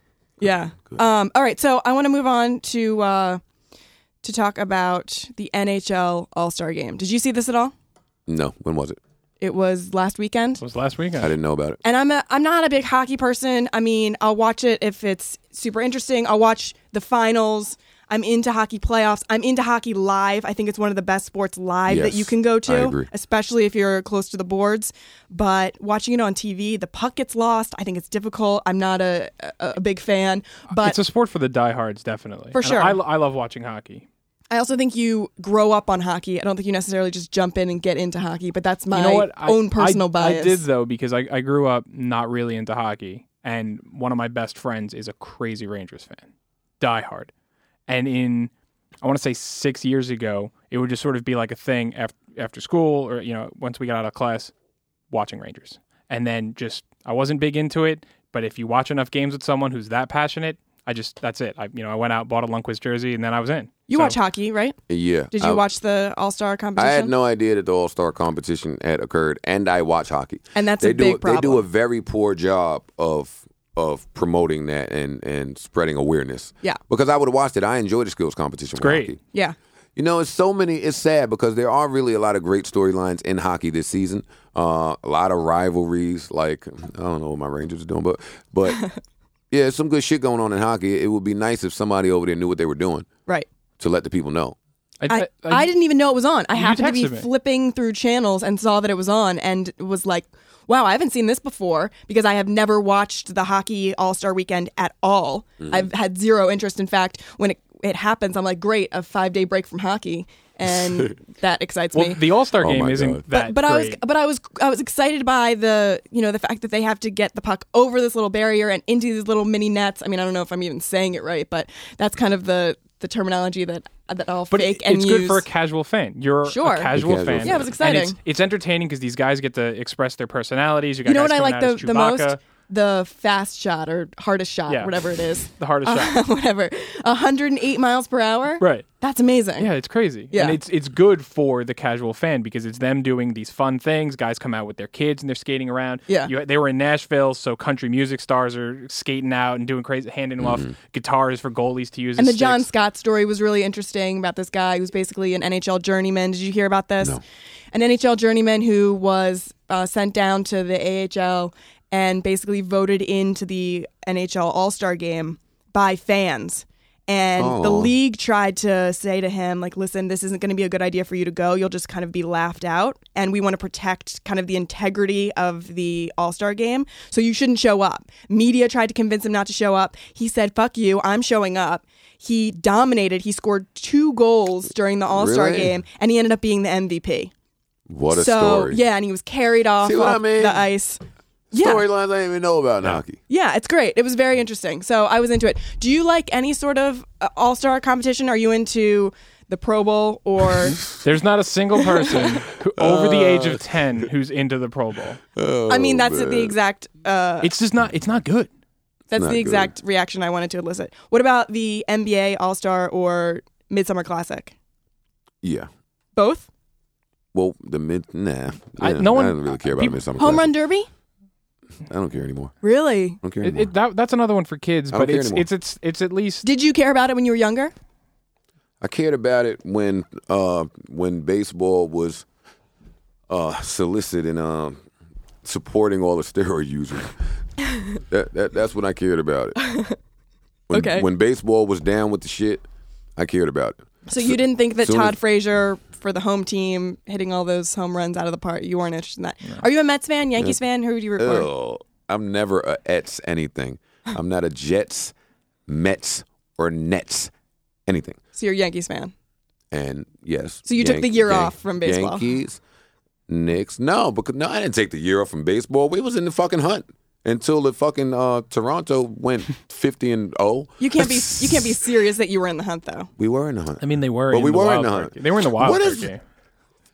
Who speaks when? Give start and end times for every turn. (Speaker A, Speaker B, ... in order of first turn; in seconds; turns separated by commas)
Speaker A: 0.4-3.4, Speaker A: 4.2-7.7, Speaker B: 8.3-9.0, Speaker A: 9.4-10.6, Speaker C: 10.6-11.3, Speaker B: 11.2-11.8, Speaker A: 11.8-31.0, Speaker B: 21.9-23.1, Speaker C: 30.8-34.1, Speaker A: 32.5-33.0, Speaker A: 34.5-40.6, Speaker C: 38.9-46.3, Speaker C: 46.8-47.3, Speaker C: 47.9-48.5, Speaker C: 49.0-54.5, Speaker C: 55.1-64.2, Speaker A: 63.9-64.8, Speaker B: 64.9-65.6, Speaker A: 65.3-67.1, Speaker B: 66.8-79.2, Speaker A: 70.5-71.7, Speaker C: 78.8-79.1, Speaker B: 80.0-88.8, Speaker A: 88.7-89.0, Speaker B: 89.5-93.1, Speaker B: 93.8-94.6, Speaker C: 95.0-95.7, Speaker A: 95.1-112.2, Speaker C: 96.5-97.3, Speaker C: 111.9-114.0, Speaker B: 112.6-113.2, Speaker A: 113.3-125.5, Speaker C: 124.5-132.4, Speaker A: 126.5-126.9, Speaker B: 127.0-127.7, Speaker A: 127.4-128.2, Speaker A: 131.1-139.7, Speaker C: 134.7-136.2, Speaker C: 138.6-138.9, Speaker C: 139.6-152.7, Speaker A: 140.3-140.6, Speaker B: 150.4-150.7, Speaker A: 152.2-157.2, Speaker A: 157.7-187.3, Speaker B: 167.4-167.9, Speaker B: 185.1-185.8, Speaker B: 187.9-188.8, Speaker A: 188.1-191.0, Speaker B: 189.8-190.7, Speaker A: 191.5-191.8, Speaker B: 191.5-193.2, Speaker A: 193.3-200.8, Speaker C: 200.9-205.2, Speaker B: 202.8-203.6, Speaker B: 205.4-206.5, Speaker A: 205.7-207.5, Speaker C: 207.4-208.5, Speaker A: 209.1-214.6, Speaker B: 209.2-209.7, Speaker B: 215.4-215.7, Speaker A: 216.2-216.5, Speaker B: 217.3-220.5, Speaker C: 218.8-220.0, Speaker A: 220.2-220.9, Speaker B: 221.9-222.6, Speaker A: 222.6-223.2, Speaker B: 223.2-223.7, Speaker C: 223.4-226.5, Speaker B: 224.9-225.5, Speaker A: 226.4-227.7, Speaker B: 228.8-232.2, Speaker B: 233.3-234.8, Speaker B: 235.4-237.2, Speaker B: 237.9-239.6, Speaker A: 239.6-240.0, Speaker B: 240.7-242.6, Speaker A: 240.7-241.1, Speaker B: 243.2-245.2, Speaker A: 244.1-251.5, Speaker B: 251.2-255.1, Speaker B: 255.7-257.3, Speaker B: 257.9-258.2, Speaker A: 258.4-259.1, Speaker B: 259.7-262.6, Speaker A: 260.7-262.3, Speaker B: 263.3-271.7, Speaker A: 270.8-273.1, Speaker B: 273.2-276.1, Speaker C: 273.8-276.2